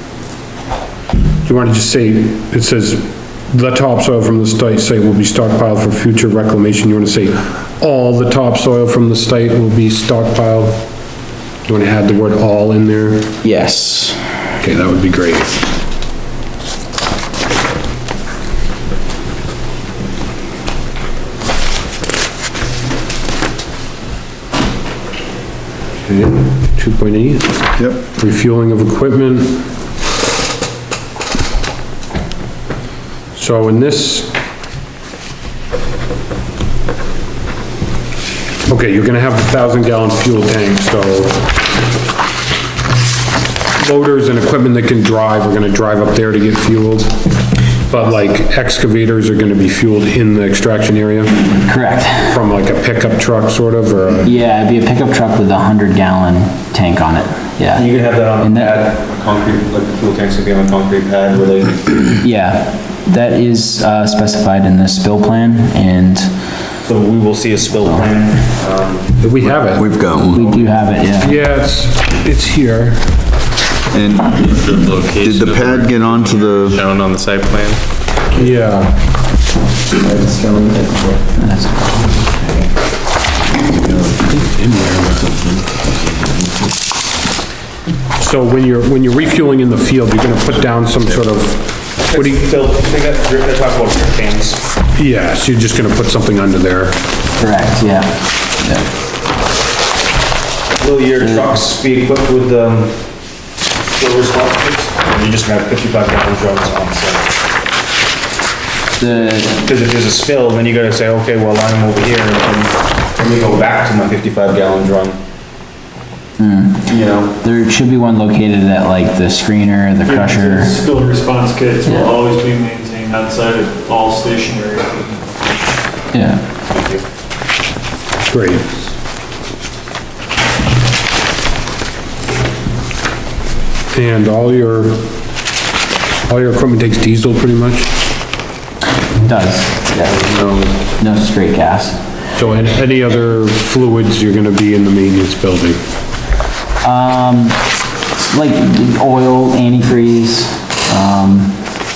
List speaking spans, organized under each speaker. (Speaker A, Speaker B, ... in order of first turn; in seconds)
Speaker A: 1.4-10.8, 11.7-13.3, 14.6-15.6, 26.0-27.6, 28.2-29.7, 33.3-34.3, 38.7-41.5, 43.8-47.2, 47.9-51.5, 52.2-54.3, 69.2-69.9, 71.2-73.1, 78.3-79.0, 84.0-85.5, 88.2-92.5, 94.9-97.0, 128.3-128.7, 133.9-135.0, 136.3-137.9, 140.2-140.7, 142.3-145.8
Speaker B: 13.4-14.2, 51.5-52.4, 54.2-58.9, 62.2-66.3, 67.8-68.1, 70.3-71.4, 80.0-82.7, 97.4-98.8, 101.2-101.6, 109.0-109.6, 116.4-120.8, 126.1-126.4, 139.2-142.0, 146.8-147.7, 148.2-151.6
Speaker C: 57.8-61.9, 66.9-69.1, 74.3-77.8, 92.1-94.6, 100.8-102.9, 104.0-107.3, 109.5-115.2, 116.9-117.3
Speaker D: 69.7-70.5, 73.9-76.8
Speaker E: 120.1-125.2